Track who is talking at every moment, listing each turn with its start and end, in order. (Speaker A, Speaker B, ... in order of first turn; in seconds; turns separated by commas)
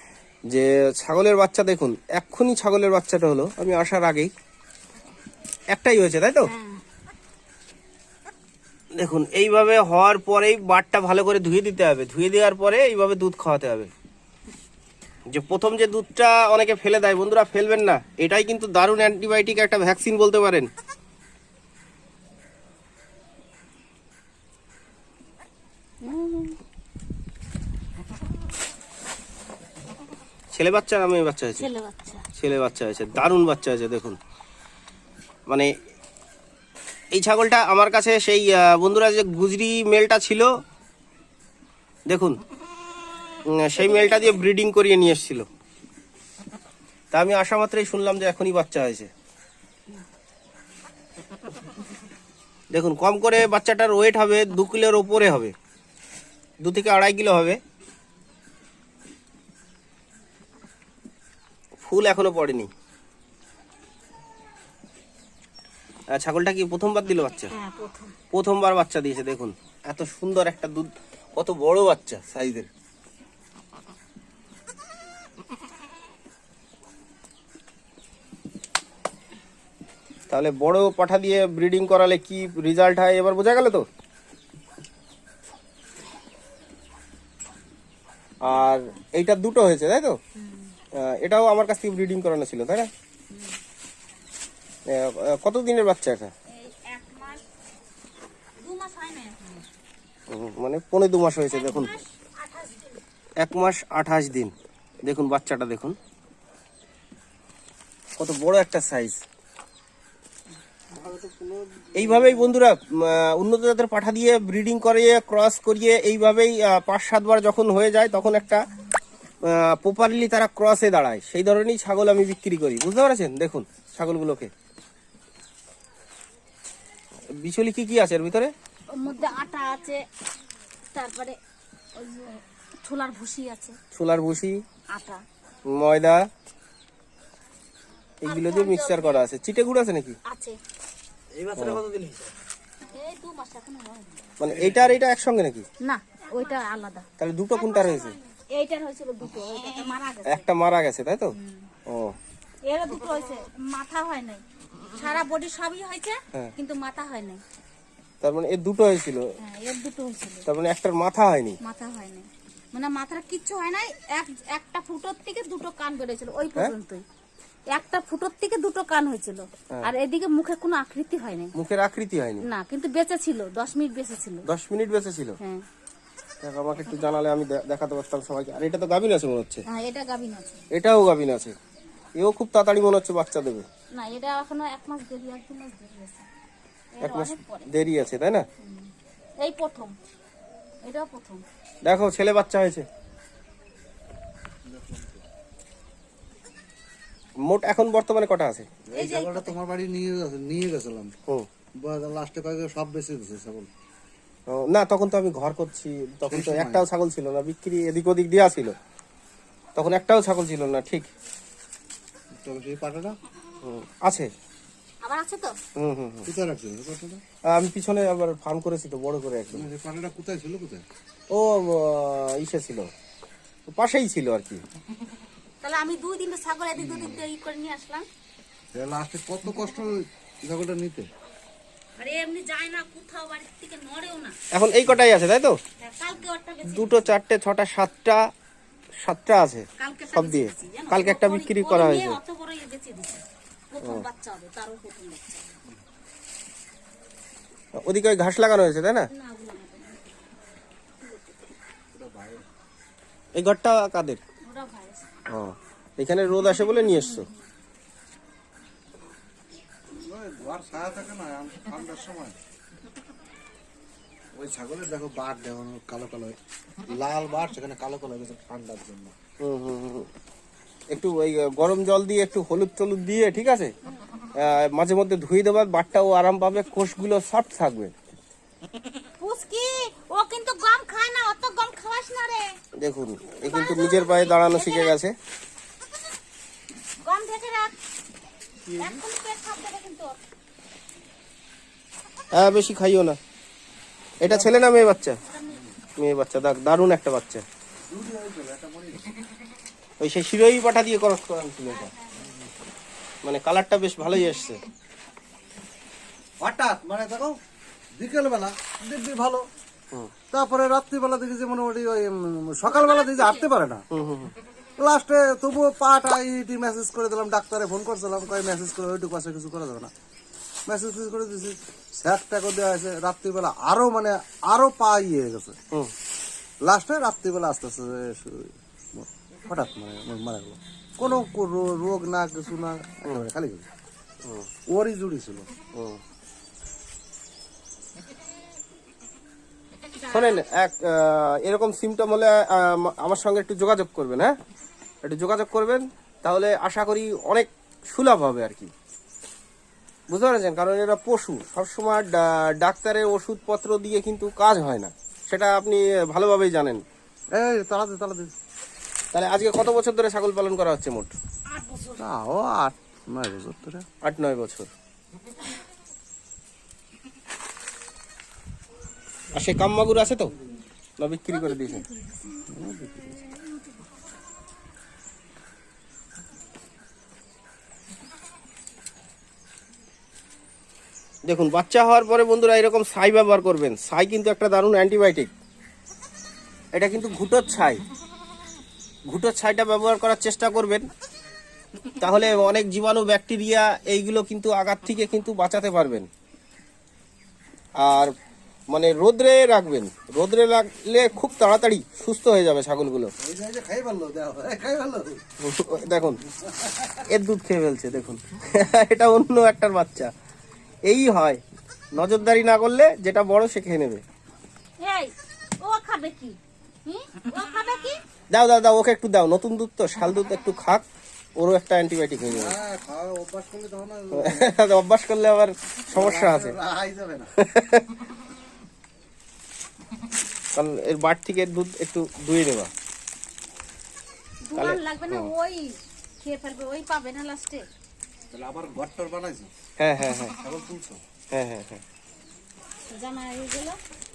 Speaker A: 0.5-4.3, Speaker A: 5.7-6.5, Speaker B: 6.5-6.8, Speaker A: 8.9-13.9, Speaker A: 15.3-20.7, Speaker B: 26.0-26.6, Speaker A: 30.5-31.7, Speaker B: 31.6-32.3, Speaker A: 32.3-34.2, Speaker A: 37.1-40.5, Speaker A: 42.1-42.4, Speaker A: 43.5-45.5, Speaker A: 47.1-49.1, Speaker A: 52.7-55.5, Speaker A: 56.6-57.6, Speaker A: 61.8-62.7, Speaker A: 66.1-67.5, Speaker B: 67.5-68.1, Speaker A: 68.3-72.7, Speaker A: 80.3-83.8, Speaker A: 88.4-90.2, Speaker B: 90.4-90.8, Speaker A: 90.9-92.9, Speaker B: 93.3-93.6, Speaker A: 94.9-96.3, Speaker B: 96.5-97.4, Speaker B: 98.6-99.7, Speaker A: 100.3-101.9, Speaker B: 101.5-103.0, Speaker A: 103.4-104.5, Speaker A: 105.0-105.9, Speaker A: 108.2-109.2, Speaker C: 110.9-112.4, Speaker A: 111.9-118.6, Speaker A: 119.4-124.5, Speaker A: 127.4-128.5, Speaker B: 128.9-130.0, Speaker B: 130.9-131.4, Speaker B: 131.9-133.8, Speaker A: 133.9-134.6, Speaker B: 134.9-135.2, Speaker A: 135.7-136.2, Speaker A: 138.2-140.2, Speaker B: 138.2-139.2, Speaker B: 140.2-140.6, Speaker A: 141.6-141.8, Speaker B: 142.9-144.2, Speaker A: 144.4-145.6, Speaker B: 145.8-150.5, Speaker A: 147.2-148.1, Speaker A: 150.2-151.3, Speaker B: 151.4-151.7, Speaker A: 151.8-152.1, Speaker B: 152.6-157.4, Speaker A: 158.2-159.2, Speaker B: 159.4-160.4, Speaker A: 160.4-161.6, Speaker B: 161.6-167.0, Speaker B: 167.7-171.5, Speaker A: 171.5-172.4, Speaker B: 172.4-174.4, Speaker A: 174.4-175.4, Speaker A: 176.4-179.6, Speaker B: 179.7-180.6, Speaker A: 180.7-181.5, Speaker A: 182.2-183.6, Speaker B: 183.9-186.3, Speaker B: 186.9-187.7, Speaker A: 187.0-188.4, Speaker B: 188.6-189.9, Speaker B: 190.8-191.4, Speaker A: 191.8-192.8, Speaker C: 194.7-195.2, Speaker A: 197.4-198.7, Speaker C: 198.9-201.1, Speaker B: 198.9-199.5, Speaker C: 201.8-203.7, Speaker A: 204.5-208.7, Speaker C: 206.3-206.9, Speaker A: 209.8-211.1, Speaker C: 212.4-213.2, Speaker A: 213.6-214.3, Speaker B: 215.0-215.6, Speaker A: 215.8-216.3, Speaker C: 216.2-217.2, Speaker A: 217.5-219.7, Speaker C: 219.5-220.8, Speaker A: 221.3-222.9, Speaker A: 223.7-224.6, Speaker B: 225.6-228.1, Speaker C: 226.8-227.2, Speaker C: 228.7-231.1, Speaker B: 232.0-234.4, Speaker A: 234.5-235.6, Speaker B: 235.8-237.1, Speaker A: 236.6-238.2, Speaker A: 239.0-242.2, Speaker B: 239.8-245.6, Speaker A: 247.8-249.1, Speaker B: 249.1-250.0, Speaker B: 251.0-251.3, Speaker C: 251.9-252.4, Speaker A: 253.3-254.2, Speaker B: 254.4-255.1, Speaker A: 255.3-257.3, Speaker B: 256.6-257.3, Speaker C: 260.0-262.4, Speaker C: 264.3-269.1, Speaker A: 269.4-270.1, Speaker A: 270.9-273.7, Speaker A: 274.4-277.9, Speaker B: 279.2-282.6, Speaker A: 282.8-285.1, Speaker B: 283.4-285.0, Speaker B: 287.0-287.7, Speaker C: 288.7-289.0, Speaker B: 288.7-290.2, Speaker A: 292.3-293.2, Speaker A: 294.2-295.2, Speaker B: 294.6-295.6, Speaker A: 296.0-297.4, Speaker C: 297.9-299.1, Speaker A: 300.0-301.9, Speaker B: 301.7-302.2, Speaker A: 303.2-304.6, Speaker C: 306.4-307.4, Speaker C: 308.0-309.4, Speaker C: 310.3-313.8, Speaker B: 312.6-313.5, Speaker A: 313.9-314.3, Speaker C: 314.8-319.9, Speaker C: 320.7-325.6, Speaker C: 326.6-333.7, Speaker C: 334.7-335.5, Speaker A: 335.7-336.0, Speaker B: 340.0-340.4, Speaker A: 340.1-344.4, Speaker A: 345.0-348.7, Speaker A: 350.1-356.8, Speaker C: 357.3-358.3, Speaker A: 359.1-361.1, Speaker B: 361.5-362.0, Speaker C: 361.9-363.9, Speaker A: 364.0-364.7, Speaker A: 369.3-370.3, Speaker A: 371.0-371.8, Speaker B: 371.3-372.4, Speaker C: 372.5-373.2, Speaker A: 381.3-385.3, Speaker A: 386.7-387.8, Speaker A: 389.1-390.9, Speaker A: 392.0-396.1, Speaker A: 397.8-398.1, Speaker A: 398.7-403.1, Speaker C: 403.2-405.2, Speaker A: 405.4-406.2, Speaker C: 406.4-406.9, Speaker A: 407.1-410.1, Speaker A: 410.9-411.4, Speaker A: 411.9-414.0, Speaker B: 414.8-418.0, Speaker A: 418.3-420.8, Speaker A: 421.4-422.6, Speaker C: 422.3-424.6, Speaker A: 424.1-426.6, Speaker C: 425.9-427.3, Speaker A: 427.4-427.9, Speaker A: 430.5-432.7, Speaker B: 434.4-437.7, Speaker A: 434.5-435.3, Speaker C: 438.3-439.5, Speaker A: 439.8-440.4, Speaker C: 440.4-441.0, Speaker A: 441.3-441.8, Speaker B: 442.9-443.8